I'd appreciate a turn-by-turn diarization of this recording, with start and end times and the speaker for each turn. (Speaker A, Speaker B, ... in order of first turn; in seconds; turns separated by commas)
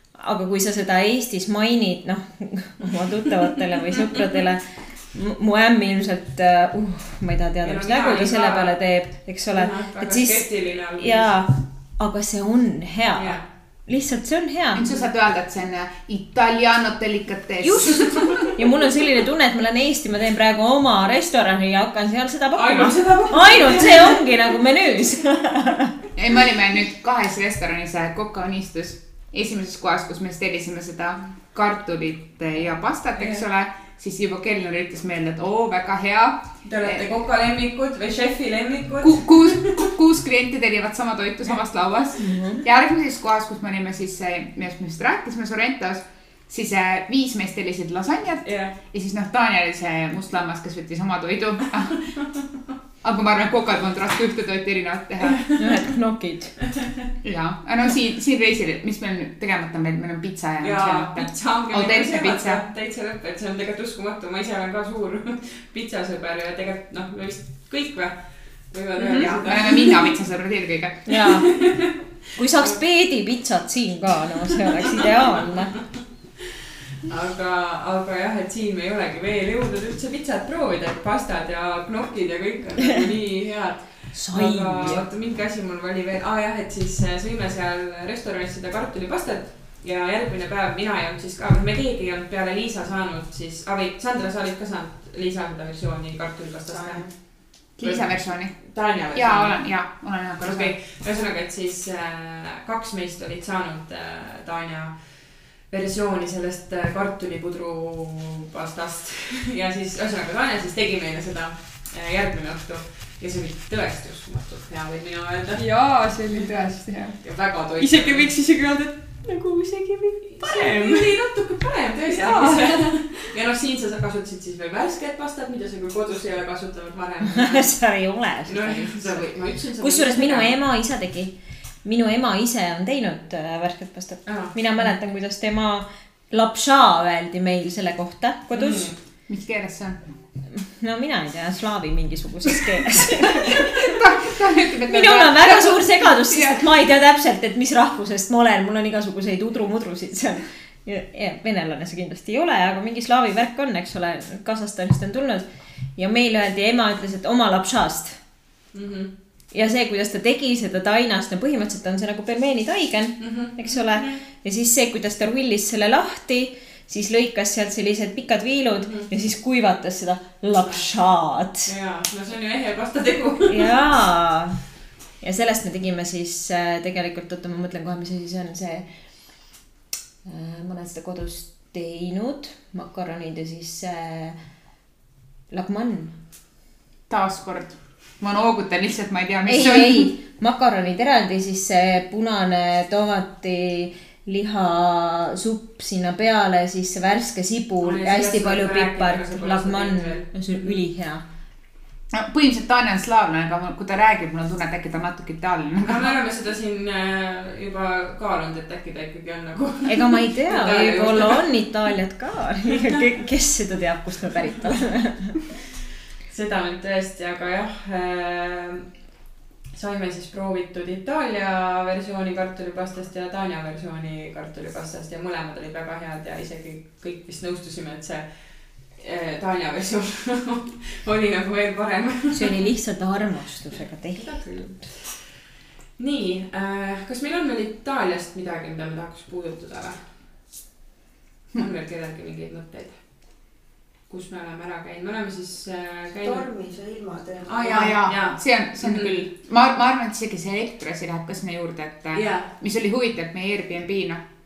Speaker A: 0.2-14.8, Speaker B: 7.6-8.8, Speaker B: 9.5-11.3, Speaker B: 13.2-13.5, Speaker C: 14.8-18.5, Speaker B: 14.8-15.1, Speaker A: 17.6-25.9, Speaker B: 22.6-24.2, Speaker C: 26.2-37.1, Speaker B: 33.2-33.4, Speaker B: 36.6-39.9, Speaker C: 39.0-52.0, Speaker A: 42.2-42.6, Speaker B: 48.5-48.8, Speaker B: 52.1-52.5, Speaker C: 53.0-55.4, Speaker B: 55.2-55.9, Speaker A: 55.6-56.6, Speaker B: 56.6-57.1, Speaker C: 57.2-62.6, Speaker B: 60.6-70.1, Speaker A: 69.0-69.3, Speaker C: 69.4-71.2, Speaker A: 71.1-71.6, Speaker B: 71.2-72.0, Speaker A: 72.4-75.8, Speaker B: 77.1-97.2, Speaker A: 84.1-85.0, Speaker D: 96.7-97.1, Speaker C: 97.8-100.7, Speaker B: 97.8-99.8, Speaker B: 100.4-116.5, Speaker E: 115.6-121.3, Speaker B: 117.2-118.3, Speaker B: 120.2-127.7, Speaker E: 122.0-123.3, Speaker A: 127.2-131.3, Speaker B: 128.5-130.6, Speaker A: 131.8-138.9, Speaker B: 134.3-134.6, Speaker B: 138.5-139.0, Speaker C: 139.3-140.0, Speaker A: 140.5-143.8, Speaker C: 143.4-146.7, Speaker A: 144.9-158.2, Speaker B: 158.7-159.1, Speaker A: 159.5-171.7, Speaker B: 163.2-164.2, Speaker B: 168.8-169.1, Speaker B: 171.7-173.7, Speaker A: 173.5-174.6, Speaker A: 175.2-178.9, Speaker A: 180.2-184.4, Speaker A: 185.5-186.1, Speaker C: 187.1-190.1, Speaker A: 189.5-201.2, Speaker B: 197.8-200.8, Speaker C: 202.1-206.2, Speaker B: 205.8-211.4, Speaker A: 209.9-215.4, Speaker B: 216.3-218.9, Speaker B: 219.7-232.7, Speaker A: 232.3-234.4, Speaker B: 234.1-235.3, Speaker B: 236.0-240.1, Speaker B: 241.6-243.0, Speaker B: 244.1-246.5, Speaker D: 246.2-247.8, Speaker B: 247.5-249.3, Speaker C: 247.6-254.2, Speaker B: 252.1-252.5